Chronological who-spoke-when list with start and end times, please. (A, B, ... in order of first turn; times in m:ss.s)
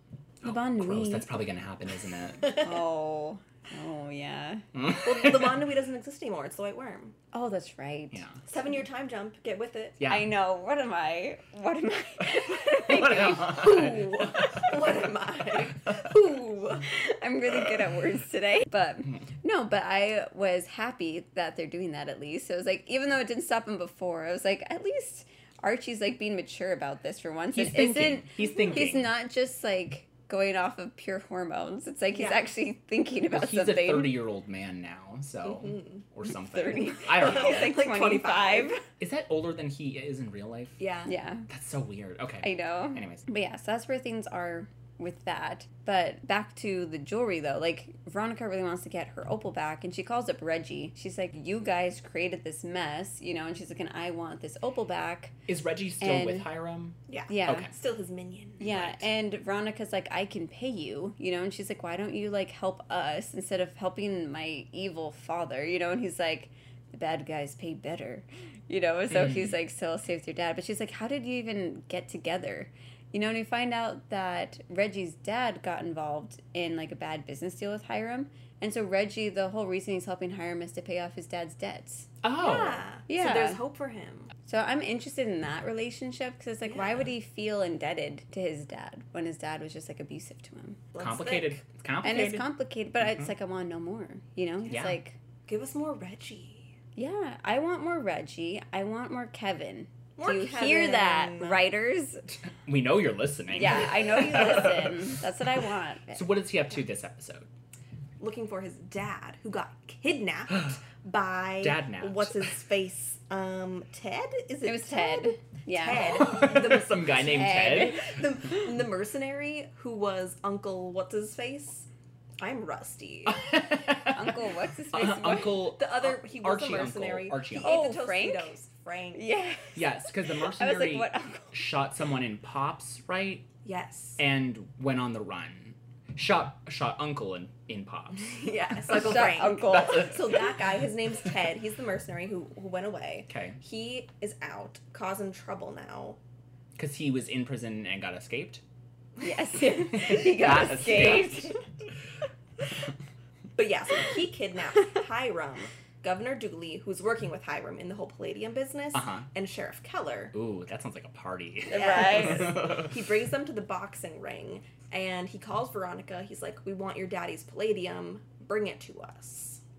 0:00.4-0:02.6 A
0:00.4-0:01.3 B
0:02.5-0:04.6 B
0:04.7-0:05.6 A
0:04.9-0:07.1 C
0:07.3-0:08.2 B
0:08.1-0:08.4 A
0:08.5-0:10.0 C
0:10.0-0:10.3 A
0:10.1-0:13.8 B
0:12.6-0:14.7 A
0:13.3-0:16.9 C
0:16.8-0:34.2 B
0:27.5-0:29.1 A
0:28.4-0:28.8 C
0:32.1-0:32.4 C
0:33.3-0:37.8 A
0:35.4-0:36.0 C
0:36.3-0:38.8 B
0:37.2-0:38.8 C
0:39.0-0:40.8 A
0:40.8-0:41.1 C
0:41.0-0:41.5 B
0:41.5-0:43.2 A
0:42.4-0:55.4 B
0:55.5-0:57.7 A
0:56.0-0:56.5 B
0:57.1-0:58.9 C
0:57.3-0:57.7 B
0:58.6-1:22.1 B
1:09.1-1:09.5 A
1:22.2-1:22.8 A
1:22.4-1:24.3 C
1:23.1-1:23.6 B
1:24.4-1:30.8 B
1:26.6-1:27.0 C
1:30.9-1:31.6 C
1:31.0-1:32.4 A
1:32.0-1:35.2 B
1:33.0-1:33.3 A
1:34.7-1:35.0 A
1:35.5-1:36.7 C
1:37.0-1:42.2 B
1:40.2-1:41.6 C
1:42.6-1:44.9 A
1:43.5-1:46.3 B
1:46.1-1:47.5 A
1:48.2-2:01.9 C
1:51.6-1:52.5 A
1:54.6-1:56.4 B
1:56.0-1:58.1 A
1:57.3-1:58.0 B
2:02.4-2:03.4 C
2:03.2-2:04.4 A
2:04.1-2:05.6 B
2:04.9-2:08.0 A
2:05.6-2:09.2 C
2:07.5-2:08.5 B
2:09.1-2:11.6 B
2:09.8-2:13.5 A
2:13.6-2:14.2 C
2:14.2-2:18.4 A
2:18.2-2:26.2 C
2:18.9-2:20.2 B
2:19.2-2:20.6 A
2:23.3-2:23.6 A
2:26.8-2:28.6 A
2:29.2-2:31.6 B
2:29.9-2:31.5 A
2:33.6-2:40.3 C
2:38.9-2:39.3 A
2:40.3-2:42.9 A
2:41.7-2:42.6 B
2:41.7-2:49.6 C